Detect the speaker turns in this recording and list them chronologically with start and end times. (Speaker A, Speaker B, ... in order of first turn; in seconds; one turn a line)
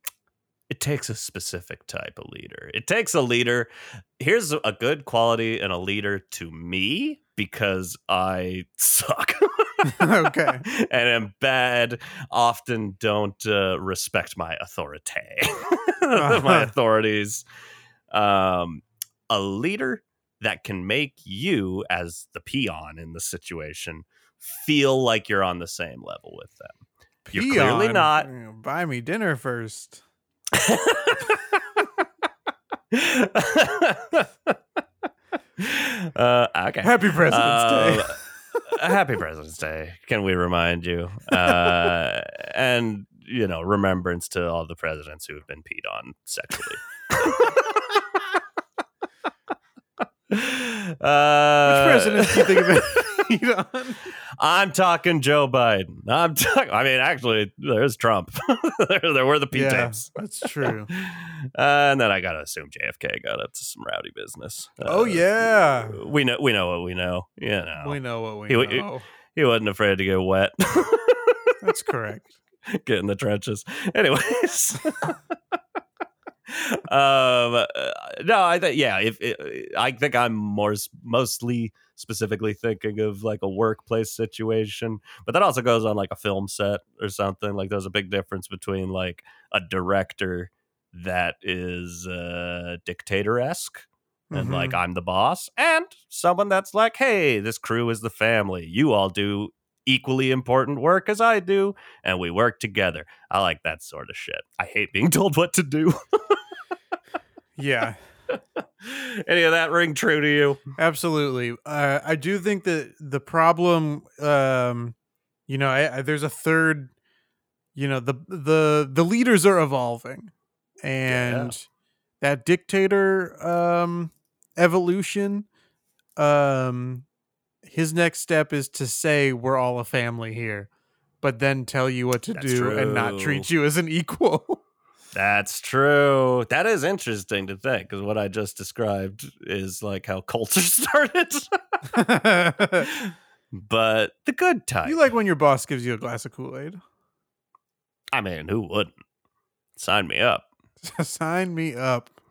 Speaker A: 0.7-17.4
Speaker B: 9.8-10.7
Speaker B: 16.2-16.7
Speaker A: 18.1-28.3
Speaker B: 27.2-30.0
Speaker A: 30.5-31.6
Speaker A: 32.9-34.6
Speaker A: 35.6-48.2
Speaker B: 36.8-38.2
Speaker A: 50.3-52.8
Speaker B: 51.6-54.1
Speaker A: 54.3-60.1
Speaker B: 59.5-60.9
Speaker A: 60.6-68.0
Speaker B: 64.8-66.0
Speaker B: 67.8-69.0
Speaker A: 68.5-71.6
Speaker B: 71.6-72.4
Speaker A: 72.7-75.6
Speaker A: 76.5-106.4
Speaker B: 94.3-94.8
Speaker B: 107.6-108.0
Speaker A: 108.3-110.6
Speaker B: 110.8-115.0
Speaker B: 115.5-116.9
Speaker B: 117.8-120.3
Speaker B: 120.8-121.7
Speaker A: 121.1-121.5
Speaker B: 122.2-125.5
Speaker B: 126.2-127.1
Speaker B: 127.6-130.7
Speaker B: 131.2-134.6
Speaker A: 132.3-133.5
Speaker A: 135.1-142.0
Speaker B: 141.9-142.9
Speaker A: 142.6-145.0
Speaker B: 144.8-146.8
Speaker A: 148.1-148.9
Speaker A: 149.8-150.5
Speaker B: 150.8-152.1